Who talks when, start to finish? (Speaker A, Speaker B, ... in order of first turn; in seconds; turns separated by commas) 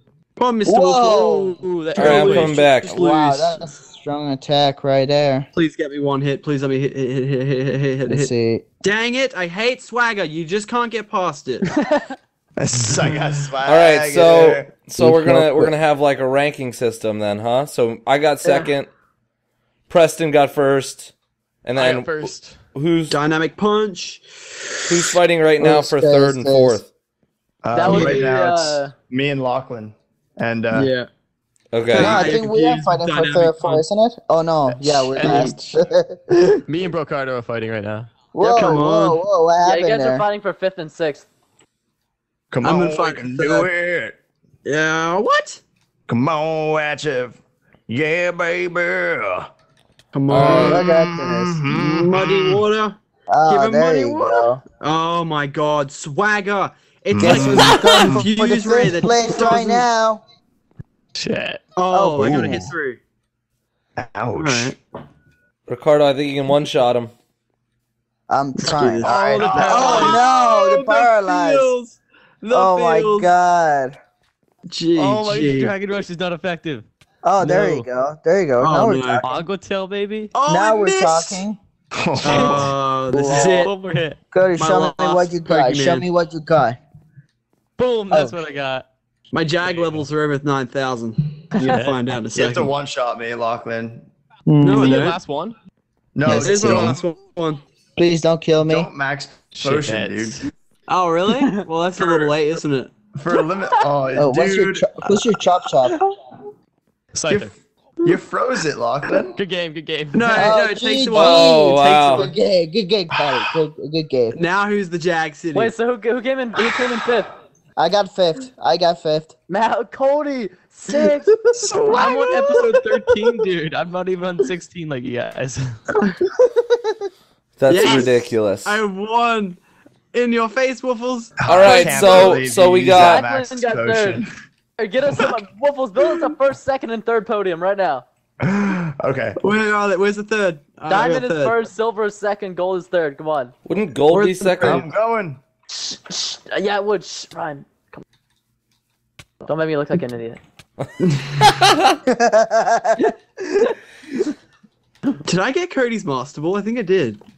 Speaker A: 0.4-3.8, Speaker B: 0.6-5.5, Speaker C: 1.9-2.9, Speaker A: 5.5-11.7, Speaker B: 8.1-8.6, Speaker D: 11.7-12.2, Speaker E: 12.6-14.7, Speaker A: 12.9-13.5, Speaker C: 13.6-18.9, Speaker B: 15.0-15.7, Speaker D: 18.4-18.7, Speaker C: 19.9-21.1, Speaker C: 21.6-23.2, Speaker F: 21.7-22.6, Speaker A: 23.1-24.9, Speaker C: 24.9-26.9, Speaker B: 25.6-26.8, Speaker E: 27.6-30.9, Speaker D: 27.7-28.9, Speaker A: 27.9-28.4, Speaker A: 30.7-31.1, Speaker C: 31.7-32.3, Speaker A: 31.9-33.8, Speaker B: 31.9-36.3, Speaker F: 34.8-35.8, Speaker A: 35.2-35.7, Speaker F: 36.7-38.1, Speaker B: 38.3-40.2, Speaker A: 38.4-39.2, Speaker D: 39.6-41.3, Speaker E: 42.5-44.1, Speaker A: 42.6-43.7, Speaker A: 44.6-45.6, Speaker E: 46.1-49.5, Speaker A: 50.1-50.9, Speaker B: 50.3-51.8, Speaker E: 50.3-52.6, Speaker A: 51.7-53.0, Speaker B: 53.3-54.6, Speaker A: 53.5-59.8, Speaker E: 57.1-58.3, Speaker B: 57.2-60.2, Speaker C: 57.7-58.0, Speaker F: 61.1-61.6, Speaker A: 61.8-63.0, Speaker B: 61.9-62.7, Speaker E: 62.2-62.7, Speaker E: 64.0-64.7, Speaker A: 64.3-64.7, Speaker C: 65.7-67.1, Speaker B: 68.3-71.7, Speaker A: 68.6-73.3, Speaker E: 69.0-70.2, Speaker F: 69.5-70.2, Speaker B: 72.5-74.0, Speaker A: 74.7-75.7, Speaker F: 75.0-76.9, Speaker B: 77.2-79.2, Speaker F: 77.4-77.8, Speaker A: 78.6-79.3, Speaker F: 79.2-80.3, Speaker A: 80.3-81.4, Speaker B: 80.5-81.6, Speaker E: 81.9-82.7, Speaker A: 82.2-83.7, Speaker F: 82.3-82.7, Speaker B: 83.1-83.7, Speaker F: 83.2-84.2, Speaker B: 84.3-86.8, Speaker A: 84.5-86.1, Speaker F: 87.8-88.9, Speaker A: 89.3-92.7, Speaker F: 89.6-90.0, Speaker F: 91.6-92.0, Speaker E: 92.3-94.1, Speaker B: 94.5-95.1, Speaker A: 94.6-95.2, Speaker F: 94.7-95.6, Speaker E: 96.1-97.0, Speaker A: 96.2-97.6, Speaker B: 96.2-97.0, Speaker B: 98.0-98.9, Speaker E: 98.6-100.4, Speaker F: 99.5-100.5, Speaker A: 100.9-102.9, Speaker E: 102.0-102.3, Speaker E: 103.1-104.9, Speaker B: 104.2-106.0, Speaker F: 107.1-107.5, Speaker E: 108.0-109.4, Speaker F: 109.3-110.6, Speaker A: 110.1-112.3, Speaker B: 110.3-114.4, Speaker C: 111.1-112.3, Speaker E: 113.2-113.5, Speaker A: 114.3-115.7, Speaker D: 115.5-117.3, Speaker B: 117.8-119.3, Speaker D: 119.5-121.3, Speaker A: 121.4-122.8, Speaker E: 121.6-122.0, Speaker F: 121.9-125.8, Speaker C: 127.6-128.8, Speaker A: 127.7-129.6, Speaker A: 130.1-131.8, Speaker E: 131.4-134.3, Speaker C: 131.4-133.2, Speaker D: 131.6-132.4, Speaker D: 132.9-134.2, Speaker D: 134.8-138.0, Speaker E: 138.4-139.5, Speaker A: 139.4-141.6, Speaker D: 140.9-143.5, Speaker C: 143.7-144.8, Speaker A: 144.1-144.8, Speaker E: 144.6-145.4, Speaker D: 145.7-148.0, Speaker D: 149.4-150.4, Speaker C: 150.8-151.9, Speaker A: 151.0-151.5, Speaker B: 152.1-153.0, Speaker D: 153.0-153.8, Speaker A: 155.2-157.2